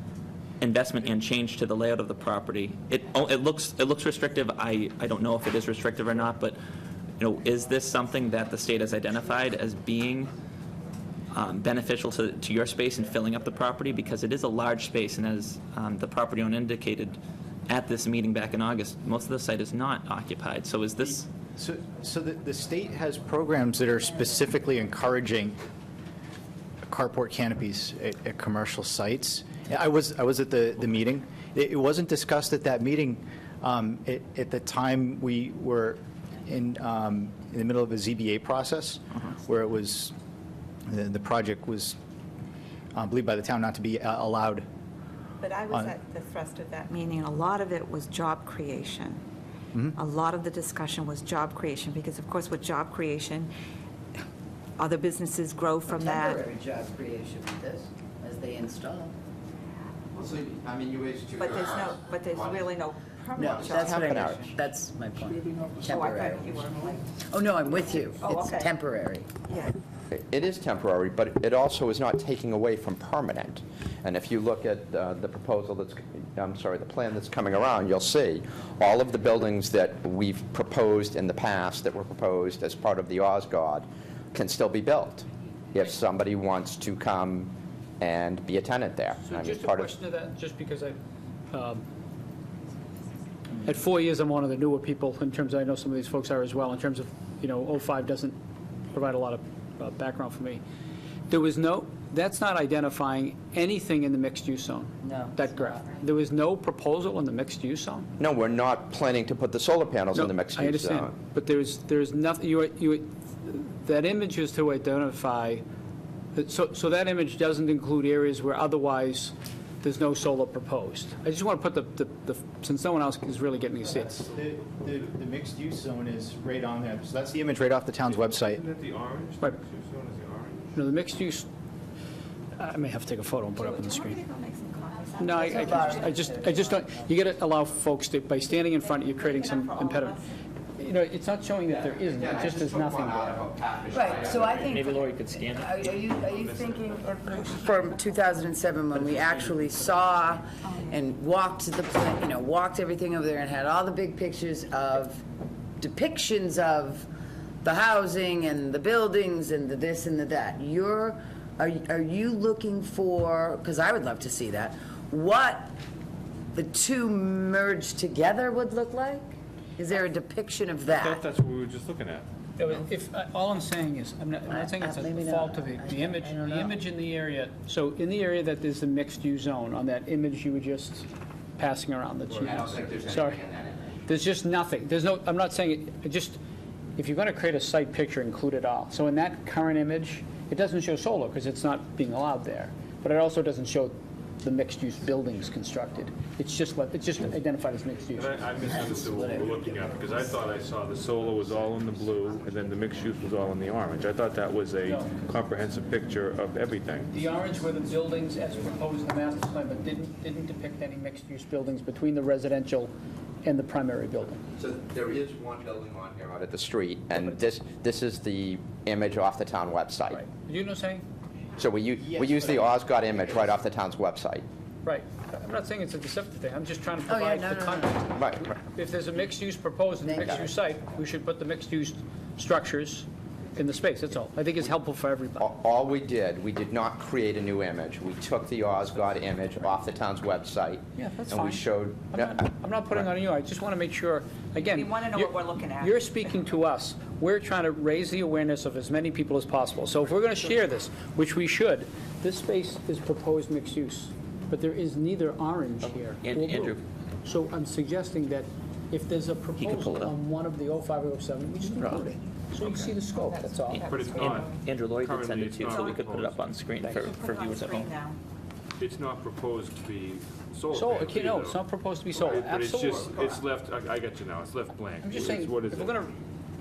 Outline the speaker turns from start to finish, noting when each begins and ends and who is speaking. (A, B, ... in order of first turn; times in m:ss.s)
0:00.6-0:06.6 A
0:07.2-0:10.3 A
0:11.3-0:21.3 A
0:21.6-0:25.6 B
0:26.9-0:40.1 B
0:40.9-0:42.0 B
0:42.9-0:44.6 B
0:45.4-0:49.2 C
0:45.7-0:46.0 B
0:50.0-0:53.5 C
0:54.8-0:56.4 C
0:55.9-0:59.1 D
1:00.1-1:02.8 E
1:01.4-1:04.5 C
1:03.4-1:09.3 D
1:03.4-1:04.6 E
1:05.5-1:06.9 F
1:06.0-1:06.9 C
1:08.2-1:08.7 C
1:09.5-1:09.8 C
1:10.1-1:29.9 E
1:29.2-1:31.0 G
1:31.5-1:31.8 G
1:33.6-1:38.4 G
1:38.9-1:40.6 G
1:41.3-1:48.1 G
1:45.0-1:46.0 D
1:48.2-1:51.1 E
1:50.1-1:55.6 G
1:56.4-2:04.1 G
2:03.9-2:08.6 B
2:08.1-2:10.7 F
2:10.8-2:11.5 G
2:12.6-2:14.2 G
2:13.6-2:16.3 C
2:15.2-2:20.2 G
2:15.4-2:16.8 D
2:19.0-2:20.2 C
2:20.8-2:23.5 G
2:21.7-2:25.0 E
2:23.9-2:35.2 D
2:24.6-2:25.8 A
2:26.1-2:27.9 F
2:30.6-2:31.0 C
2:35.8-2:37.1 D
2:37.6-2:45.7 D
2:46.5-2:51.2 D
2:50.9-2:52.2 F
2:52.6-3:03.4 G
2:54.5-2:56.8 D
3:02.4-3:04.0 E
3:04.1-3:06.4 G
3:07.0-3:18.4 G
3:18.2-3:27.2 F
3:18.9-3:19.9 D
3:24.8-3:25.2 G
3:27.1-3:32.9 G
3:33.4-3:34.4 G
3:34.6-3:40.2 E
3:40.1-3:41.0 G
3:41.6-3:44.4 E
3:42.0-3:42.8 B
3:44.8-3:55.5 G
3:47.1-3:48.0 D
3:48.2-3:48.6 E
3:50.0-3:50.4 D
3:50.2-3:50.5 E
3:55.4-4:03.1 E
4:01.0-4:23.9 G
4:04.6-4:06.0 C
4:15.8-4:16.8 A
4:19.6-4:20.2 A
4:23.4-4:24.5 C
4:23.7-4:27.9 A
4:23.9-4:27.1 F
4:27.0-4:28.2 C
4:28.8-4:31.6 F
4:30.8-4:33.1 G
4:32.1-4:36.1 F
4:35.0-4:36.1 G